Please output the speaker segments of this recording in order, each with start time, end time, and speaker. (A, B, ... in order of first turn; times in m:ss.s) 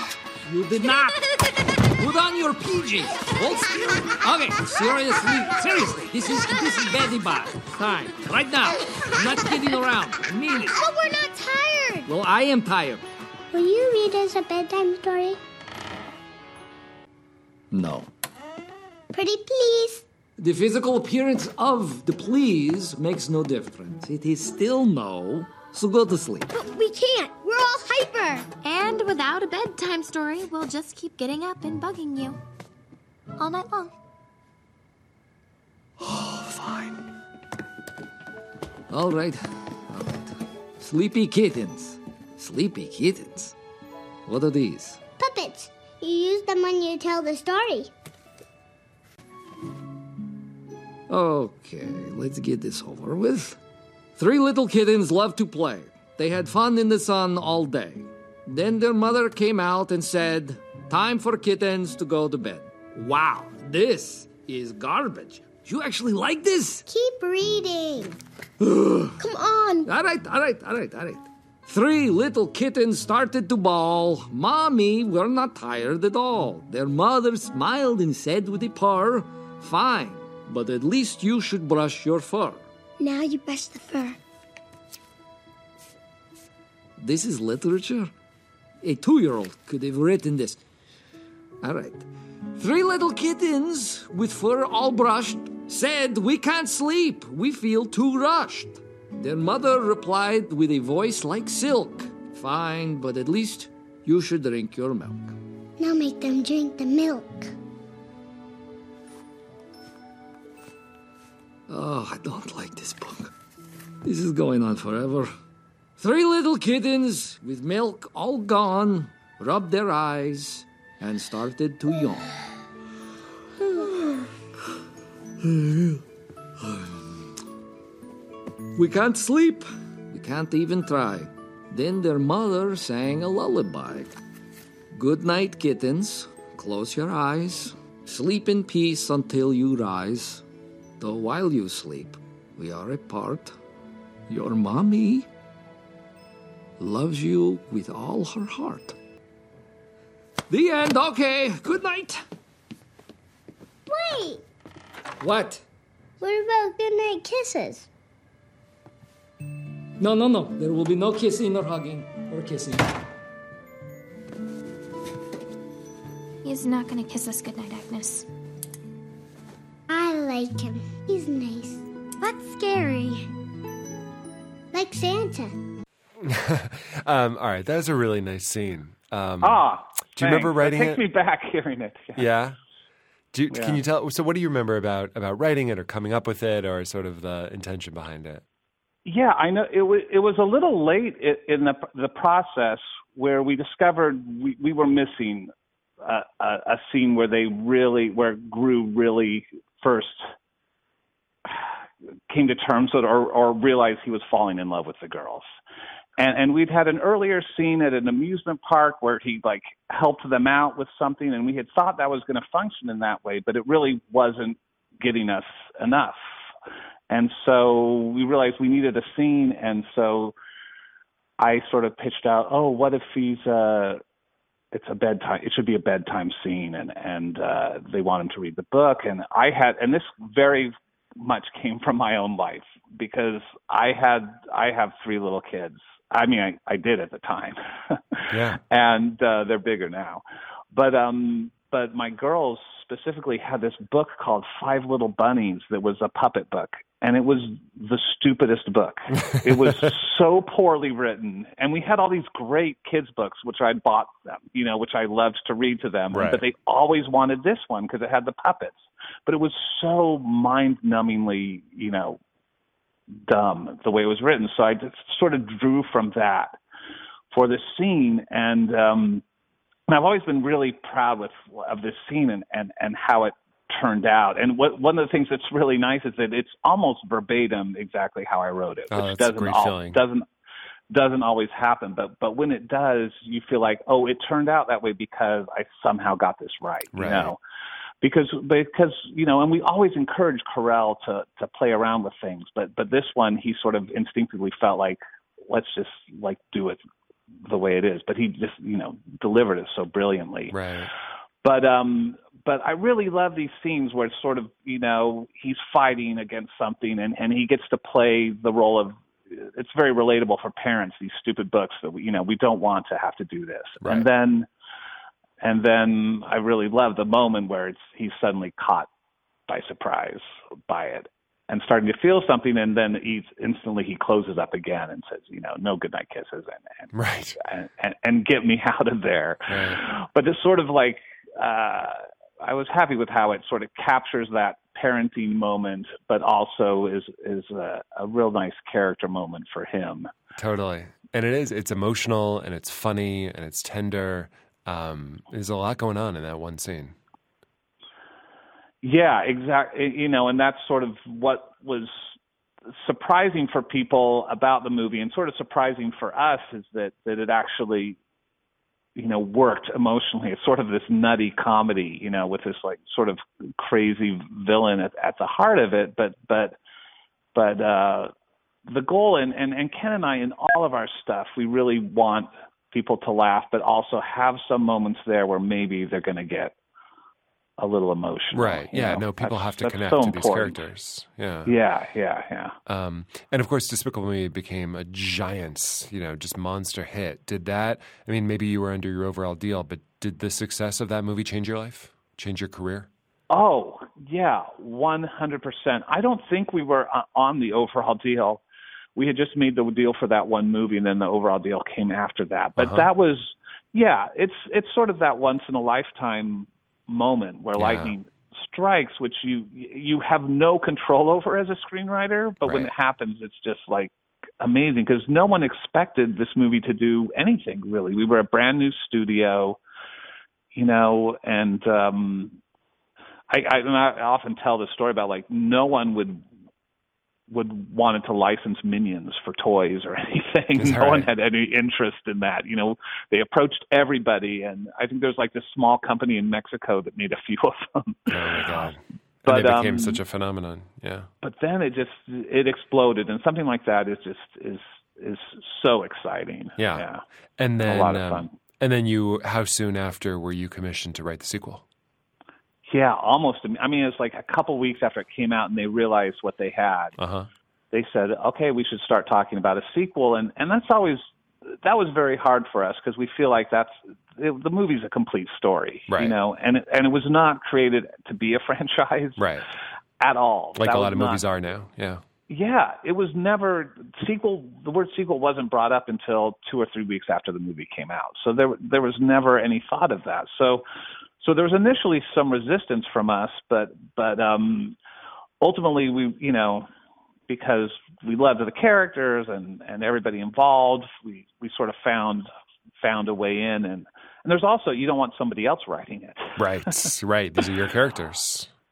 0:00.4-0:01.2 A
0:02.0-0:10.8 A
0:10.7-0:12.1 B
0:12.0-0:13.0 A
0:13.5-0:15.4 B
0:17.7-0:18.1 A
0:19.1-0:20.0 B
0:20.4-0:26.5 A
0:26.5-0:28.5 B
0:28.6-0:32.4 C
0:33.4-0:33.9 C
0:36.0-0:37.0 A
0:38.9-0:43.5 A
0:44.3-0:45.0 A
0:45.2-0:47.9 B
0:51.1-0:53.6 A
0:54.2-1:06.8 A
1:06.9-1:08.2 B
1:08.6-1:09.2 A
1:09.2-1:09.9 B
1:09.8-1:22.6 A
1:23.0-1:24.2 B
1:27.0-1:28.1 A
1:28.8-1:30.6 A
1:31.6-1:45.3 A
1:45.8-1:47.5 B
1:51.7-1:53.3 A
1:54.0-1:55.3 A
1:56.0-2:02.3 A
2:05.4-2:06.0 A
2:06.6-2:06.9 A
2:08.8-2:14.1 A
2:14.9-2:20.4 A
2:21.0-2:23.6 A
2:24.3-2:25.3 A
2:26.8-2:28.9 A
2:30.5-2:32.2 A
2:33.9-2:34.4 B
2:35.2-2:35.6 A
2:36.2-2:37.9 B
2:40.0-2:42.9 A
2:46.4-2:48.3 C
2:49.9-2:53.2 B
2:54.7-2:55.5 B
2:56.2-3:01.0 D
2:59.4-3:02.3 E
3:02.2-3:02.6 D
3:03.3-3:08.4 D
3:03.5-3:03.8 E
3:09.0-3:15.5 E
3:16.0-3:20.2 E
3:21.4-3:21.7 E
3:22.3-3:25.4 E
3:26.2-3:36.2 E
3:37.1-3:40.3 E
3:41.4-3:44.0 E
3:44.7-4:22.2 E
3:58.3-3:58.6 D
4:09.3-4:09.8 D
4:16.1-4:16.4 D
4:23.1-4:26.6 E
4:27.3-4:29.2 E
4:29.9-4:40.2 E
4:38.9-4:40.0 D
4:40.9-4:47.4 E
4:46.9-4:47.3 D
4:48.0-4:56.8 E
4:57.4-5:00.6 E
5:00.5-5:00.9 D
5:01.4-5:14.5 E
5:13.8-5:14.1 D
5:15.4-5:18.9 E
5:19.5-5:26.9 E
5:26.9-5:27.4 D
5:27.4-5:40.1 E
5:29.5-5:29.8 D
5:40.4-5:47.0 D
5:48.8-5:52.1 E
5:52.7-5:58.0 E
5:59.0-6:06.6 E
6:07.3-6:08.1 E
6:08.7-6:16.6 E
6:17.6-6:20.6 E
6:18.3-6:21.5 D
6:21.4-6:22.6 E
6:22.6-6:32.9 D
6:33.3-6:38.4 E
6:39.0-6:59.6 E
6:42.6-6:42.9 D
6:47.6-6:47.9 D
6:52.4-6:52.7 D
7:00.5-7:02.4 E
7:03.3-7:06.2 E
7:07.3-7:18.4 E
7:10.6-7:11.1 D
7:18.1-7:21.1 D
7:19.2-7:20.0 E
7:21.2-7:27.0 E
7:26.6-7:31.6 D
7:27.6-7:28.3 E
7:32.7-7:37.0 E
7:37.0-7:37.3 D
7:37.7-7:49.2 E
7:45.9-7:46.2 D
7:49.2-7:49.4 D
7:50.0-7:51.2 E
7:50.6-7:52.0 D
7:52.3-8:00.6 E
8:01.2-8:04.8 E
8:05.4-8:06.7 E
8:07.3-8:12.3 E
8:12.8-8:16.9 E
8:16.4-8:18.5 D